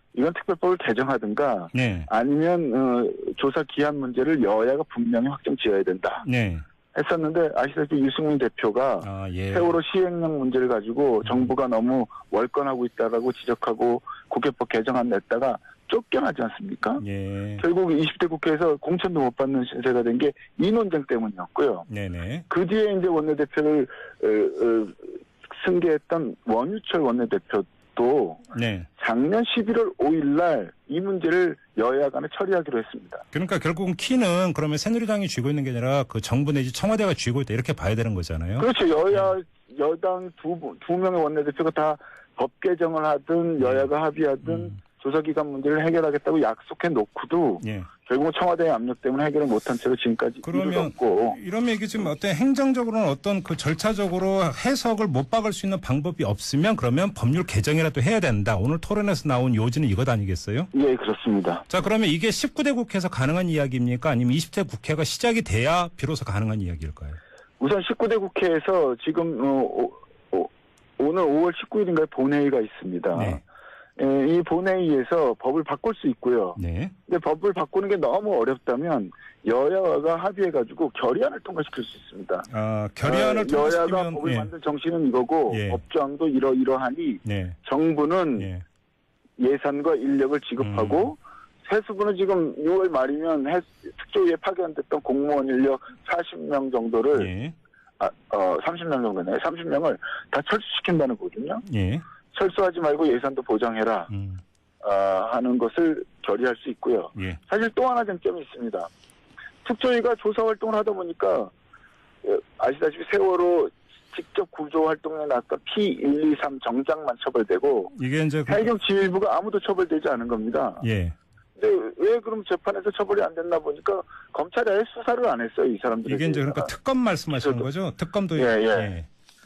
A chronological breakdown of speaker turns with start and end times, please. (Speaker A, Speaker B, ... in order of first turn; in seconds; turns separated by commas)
Speaker A: 0.1-6.2, Speaker B: 1.7-2.1, Speaker B: 6.2-6.6, Speaker A: 6.9-17.0, Speaker B: 9.0-9.7, Speaker B: 17.0-17.6, Speaker A: 17.6-21.9, Speaker B: 21.9-22.4, Speaker A: 22.5-33.2, Speaker B: 28.5-28.9, Speaker B: 33.3-39.2, Speaker A: 38.6-51.4, Speaker B: 43.6-43.9, Speaker B: 44.4-44.7, Speaker B: 47.6-47.9, Speaker B: 50.4-60.7, Speaker A: 60.7-61.6, Speaker B: 61.7-67.2, Speaker A: 67.6-73.4, Speaker B: 73.1-73.4, Speaker A: 74.0-82.5, Speaker B: 76.6-76.9, Speaker B: 82.5-84.5, Speaker A: 83.0-88.5, Speaker B: 85.5-85.8, Speaker B: 87.2-87.6, Speaker B: 88.4-88.6, Speaker A: 89.4-97.3, Speaker B: 90.6-91.1, Speaker B: 97.1-97.5, Speaker A: 98.0-101.6, Speaker B: 101.7-102.0, Speaker A: 102.3-104.1, Speaker B: 104.1-104.4, Speaker A: 104.8-108.9, Speaker B: 107.1-107.4, Speaker A: 109.6-111.5, Speaker A: 112.2-117.9, Speaker B: 117.9-118.7, Speaker A: 118.5-120.8, Speaker B: 120.8-121.2, Speaker A: 121.6-126.7, Speaker B: 126.0-129.1, Speaker A: 127.3-127.7, Speaker A: 128.3-128.9